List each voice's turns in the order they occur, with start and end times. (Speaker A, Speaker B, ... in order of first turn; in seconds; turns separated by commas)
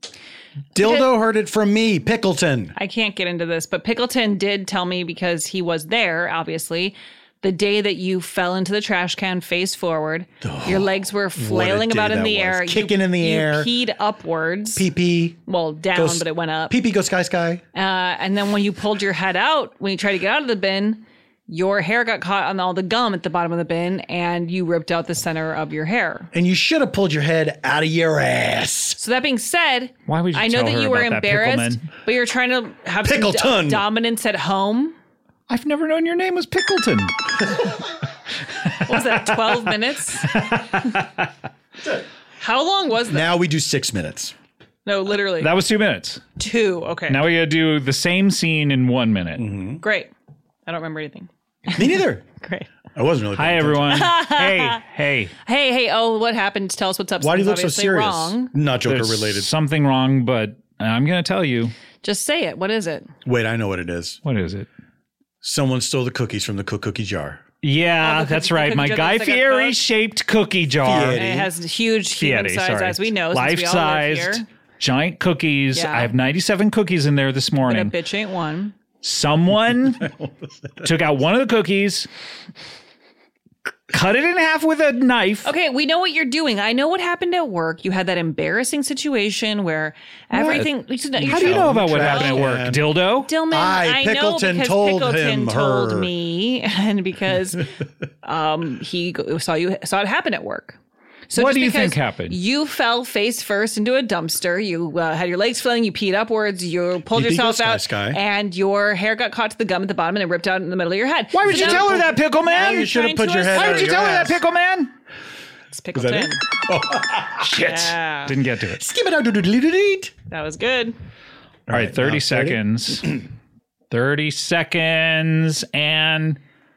Speaker A: 0.7-2.7, Speaker B: 0.8-1.1, Speaker B: 2.8-14.9, Speaker A: 10.4-13.7, Speaker A: 14.8-15.4, Speaker B: 15.5-16.8, Speaker A: 15.9-17.6, Speaker B: 17.7-26.3, Speaker A: 26.3-29.0, Speaker B: 29.0-35.0, Speaker C: 30.1-31.9, Speaker A: 33.0-33.9, Speaker C: 35.5-37.5, Speaker C: 38.6-41.3, Speaker B: 38.9-40.3, Speaker B: 42.4-43.3, Speaker A: 43.1-44.3, Speaker B: 44.9-45.5, Speaker C: 45.4-46.2, Speaker B: 46.4-47.3, Speaker C: 47.1-49.5, Speaker A: 49.4-49.8, Speaker B: 49.8-50.1, Speaker B: 50.6-52.7, Speaker A: 51.7-52.2, Speaker A: 52.9-54.1, Speaker C: 53.4-55.3, Speaker B: 53.9-54.8, Speaker B: 55.4-58.5, Speaker A: 57.2-59.5, Speaker C: 58.8-61.7, Speaker B: 62.0-63.1, Speaker A: 63.2-64.2, Speaker C: 64.2-64.7, Speaker A: 65.4-67.4, Speaker C: 67.6-71.2, Speaker B: 68.0-69.8, Speaker A: 70.8-71.5, Speaker B: 71.1-74.5, Speaker C: 72.1-77.9, Speaker B: 75.7-76.1, Speaker B: 77.6-78.7, Speaker C: 79.0-80.1, Speaker A: 80.0-80.9, Speaker C: 80.8-82.1, Speaker C: 83.9-85.5, Speaker B: 85.4-92.4, Speaker C: 90.3-93.3, Speaker A: 91.2-93.0, Speaker B: 93.2-97.7, Speaker A: 93.5-96.1, Speaker B: 98.2-100.8, Speaker B: 101.3-114.0, Speaker C: 101.3-102.4, Speaker A: 107.1-108.2, Speaker C: 111.3-112.9, Speaker A: 111.5-114.4, Speaker C: 113.5-114.9, Speaker B: 115.7-116.4, Speaker A: 115.9-117.5, Speaker C: 117.4-118.8, Speaker B: 117.5-118.3, Speaker A: 118.8-120.1, Speaker B: 120.3-120.9, Speaker A: 121.7-123.2, Speaker C: 121.7-123.2, Speaker C: 123.9-126.4